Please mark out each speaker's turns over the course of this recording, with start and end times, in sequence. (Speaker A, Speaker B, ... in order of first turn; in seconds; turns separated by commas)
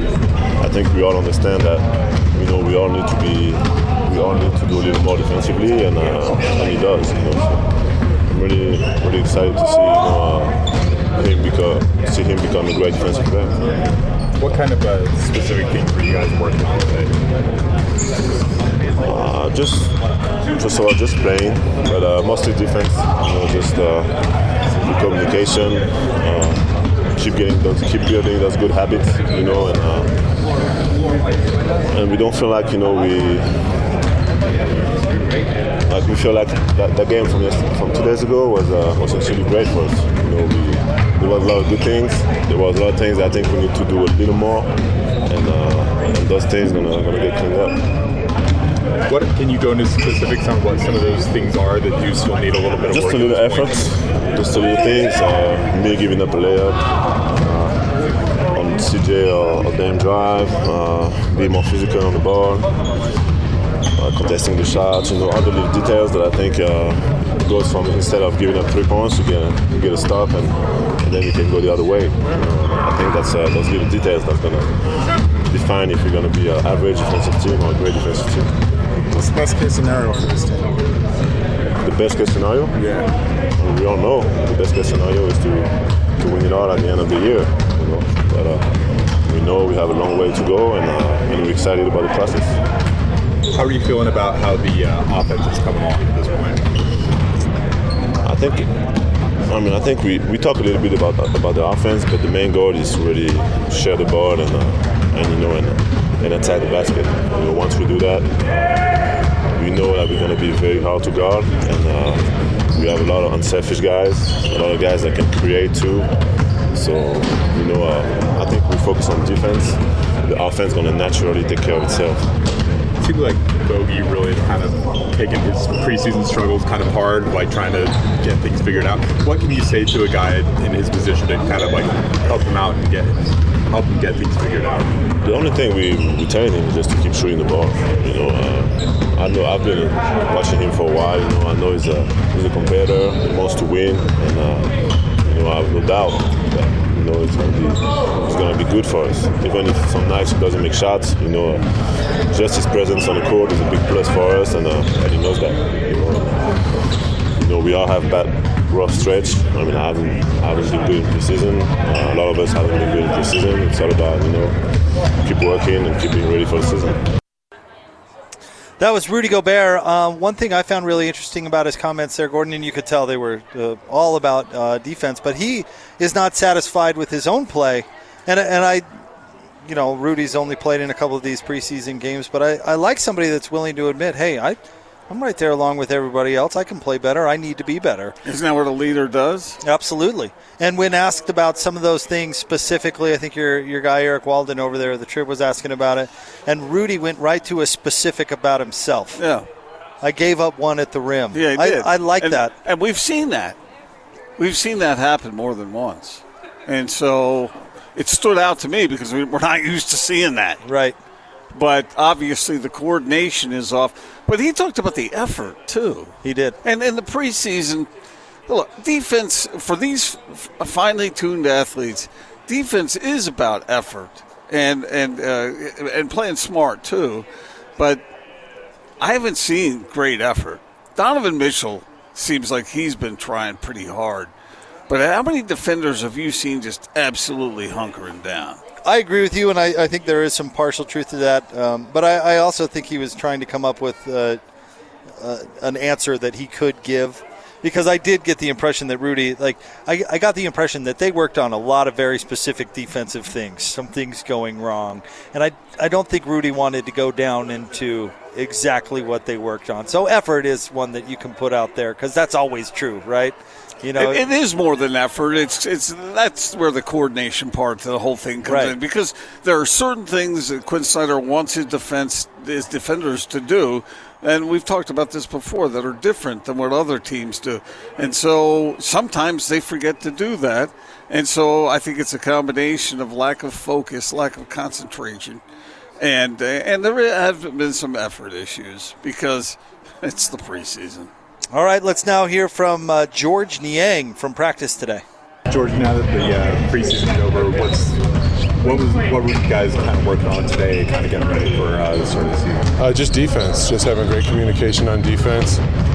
Speaker A: 0.6-7.7, Speaker A: 8.2-13.8, Speaker B: 14.4-17.3, Speaker A: 19.0-30.1, Speaker A: 31.9-33.7, Speaker A: 35.8-44.7, Speaker A: 45.2-47.8, Speaker B: 49.0-53.8, Speaker A: 52.9-57.9, Speaker A: 58.5-62.7, Speaker A: 63.9-78.5, Speaker C: 79.0-80.8, Speaker A: 81.8-82.8, Speaker C: 82.8-83.1, Speaker A: 83.5-92.6, Speaker B: 93.5-96.7, Speaker A: 98.2-98.8, Speaker A: 99.5-116.2, Speaker A: 116.7-122.3, Speaker B: 123.0-135.0, Speaker A: 135.2-164.6, Speaker A: 165.2-167.1, Speaker D: 168.8-178.8, Speaker D: 179.6-184.6, Speaker D: 185.1-188.1, Speaker E: 188.2-189.6, Speaker D: 189.6-199.2, Speaker E: 199.2-199.4, Speaker D: 200.0-202.5, Speaker E: 201.3-203.6, Speaker E: 204.4-210.6, Speaker D: 210.6-210.9, Speaker E: 211.5-217.9, Speaker D: 216.2-216.6, Speaker E: 218.5-227.2, Speaker E: 229.0-234.3, Speaker E: 234.9-238.6, Speaker D: 238.8-244.4, Speaker D: 245.2-264.2, Speaker E: 263.9-285.4, Speaker D: 268.4-268.7, Speaker E: 286.0-291.1, Speaker D: 291.5-295.0, Speaker B: 295.5-298.0, Speaker B: 298.6-302.7, Speaker F: 302.8-305.6